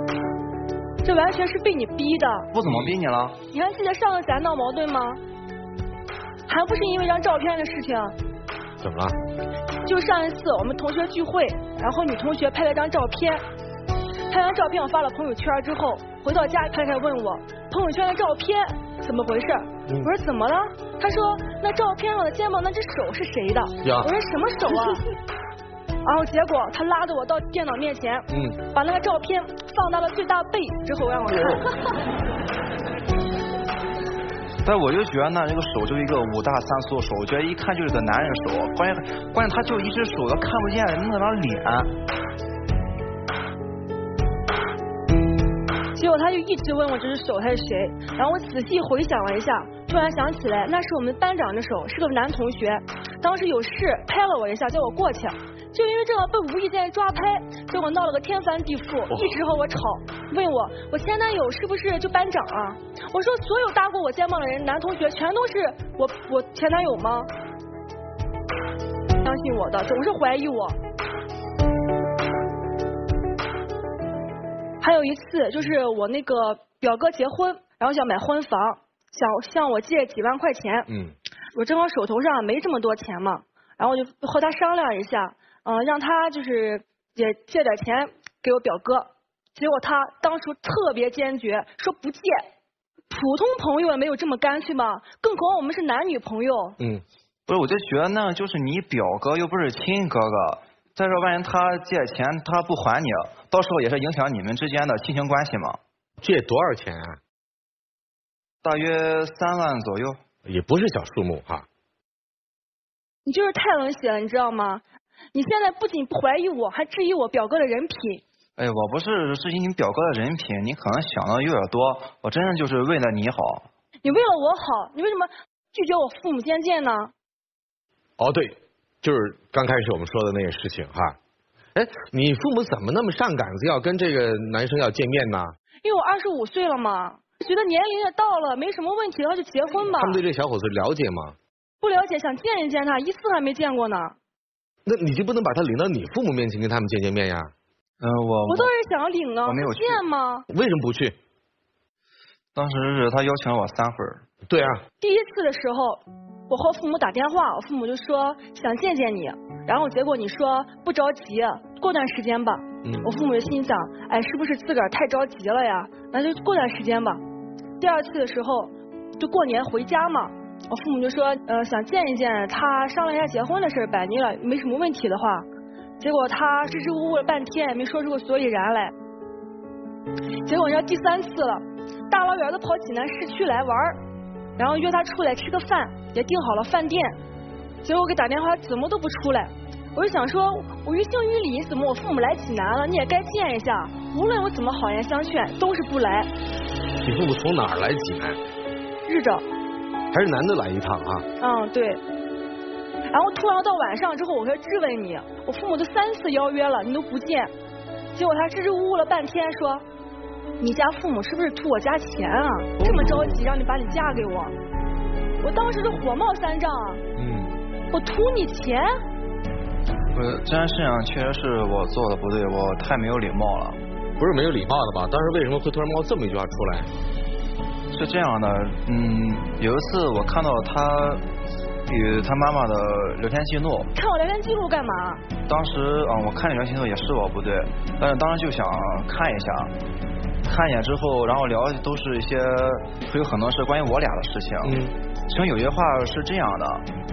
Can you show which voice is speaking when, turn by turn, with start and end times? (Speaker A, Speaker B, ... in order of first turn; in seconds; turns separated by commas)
Speaker A: 1.0-2.5, Speaker B: 2.5-3.4, Speaker A: 3.5-5.2, Speaker A: 6.5-8.2, Speaker C: 8.8-9.2, Speaker A: 9.8-13.4, Speaker A: 14.3-25.0, Speaker C: 23.8-24.1, Speaker A: 26.0-31.8, Speaker C: 28.3-28.6, Speaker B: 34.6-41.9, Speaker A: 45.9-67.3, Speaker A: 69.2-70.8, Speaker A: 74.8-80.9, Speaker C: 80.9-81.1, Speaker A: 81.5-92.5, Speaker A: 93.1-96.8, Speaker B: 97.5-105.8, Speaker C: 106.2-107.2, Speaker B: 108.6-110.2, Speaker C: 110.5-111.7, Speaker A: 113.2-114.8, Speaker A: 115.3-118.2, Speaker B: 118.6-123.7, Speaker A: 124.0-127.1, Speaker C: 128.2-131.2, Speaker C: 131.8-135.6, Speaker A: 135.8-140.2, Speaker C: 139.9-141.4, Speaker A: 141.8-144.2, Speaker C: 144.9-147.5, Speaker B: 148.0-148.7, Speaker A: 148.5-150.5, Speaker B: 149.5-150.0, Speaker C: 150.5-151.2, Speaker B: 152.6-154.2, Speaker C: 154.5-154.8, Speaker A: 155.0-167.2, Speaker A: 167.8-175.5, Speaker A: 176.0-178.9, Speaker A: 180.4-184.0, Speaker A: 184.6-187.2, Speaker A: 187.8-196.3, Speaker C: 196.9-198.4, Speaker A: 199.1-199.4, Speaker C: 200.1-201.3, Speaker A: 201.4-202.0, Speaker A: 203.1-207.5, Speaker A: 208.1-209.8, Speaker A: 210.6-214.6, Speaker C: 212.8-213.3, Speaker A: 215.4-217.0, Speaker C: 217.2-217.6, Speaker A: 217.9-218.9, Speaker B: 220.1-223.8, Speaker C: 224.2-226.9, Speaker B: 227.9-231.2, Speaker B: 231.9-233.9, Speaker A: 233.9-235.2, Speaker B: 235.4-239.7, Speaker B: 240.4-246.9, Speaker C: 244.7-244.9